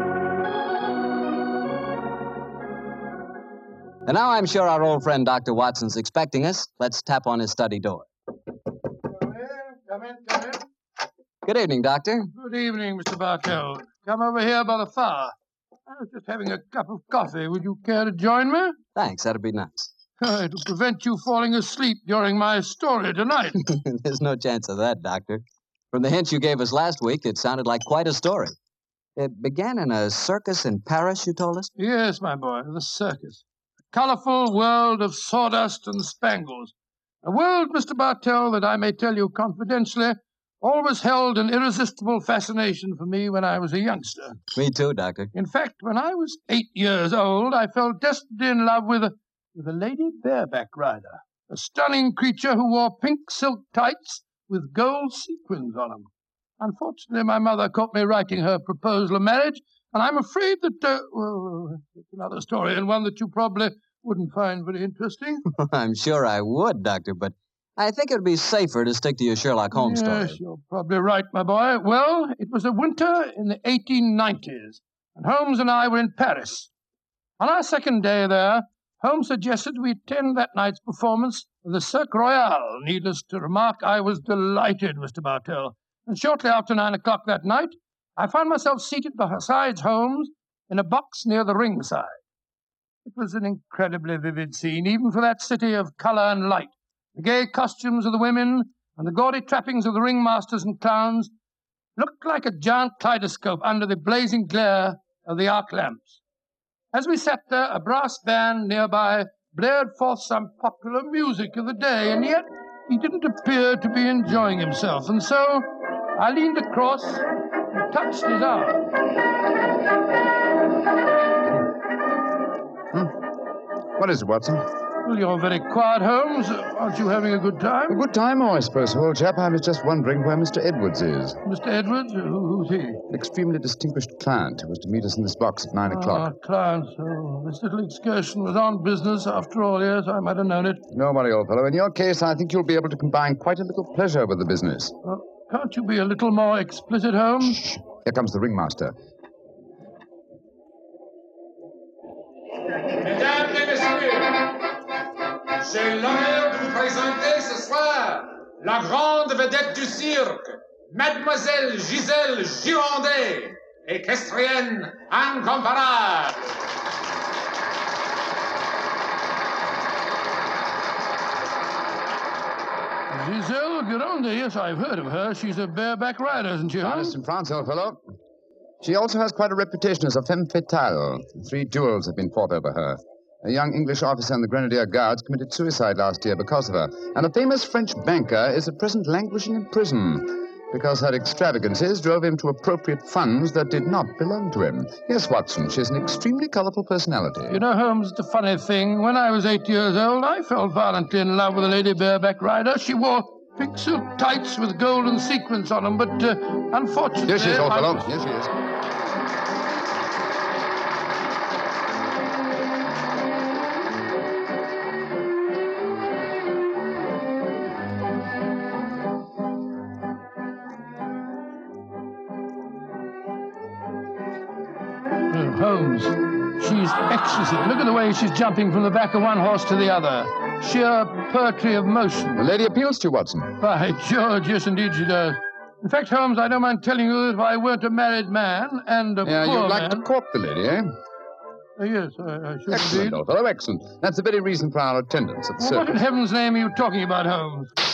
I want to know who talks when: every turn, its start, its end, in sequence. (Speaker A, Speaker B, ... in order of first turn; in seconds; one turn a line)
Speaker A: 4.0-8.1
Speaker B: 9.2-10.6
Speaker A: 11.4-12.3
Speaker B: 12.3-15.3
Speaker B: 15.9-18.8
Speaker A: 18.9-19.9
Speaker B: 20.2-23.6
Speaker A: 23.7-28.5
Speaker A: 29.1-31.7
Speaker B: 31.8-36.7
Speaker B: 37.2-44.4
Speaker A: 44.5-45.3
Speaker B: 45.3-56.1
Speaker B: 56.6-65.4
Speaker A: 65.5-70.4
Speaker B: 69.7-76.7
Speaker B: 77.4-92.2
Speaker B: 93.0-101.3
Speaker B: 102.0-106.2
Speaker B: 106.9-117.2
Speaker B: 117.8-118.8
Speaker C: 124.0-124.6
Speaker B: 125.0-128.0
Speaker C: 127.9-131.4
Speaker B: 131.4-133.0
Speaker C: 133.1-136.3
Speaker B: 135.9-140.8
Speaker C: 140.9-144.9
Speaker B: 145.0-147.6
Speaker C: 147.5-148.9
Speaker D: 152.9-154.5
Speaker D: 155.6-166.5
Speaker B: 173.1-177.1
Speaker C: 176.8-178.0
Speaker C: 178.8-197.6
Speaker B: 197.5-208.1
Speaker C: 207.2-208.5
Speaker B: 225.3-232.4
Speaker C: 232.3-233.5
Speaker B: 233.6-240.1
Speaker C: 239.2-240.9
Speaker B: 241.8-243.2
Speaker C: 242.7-245.9
Speaker B: 245.6-247.7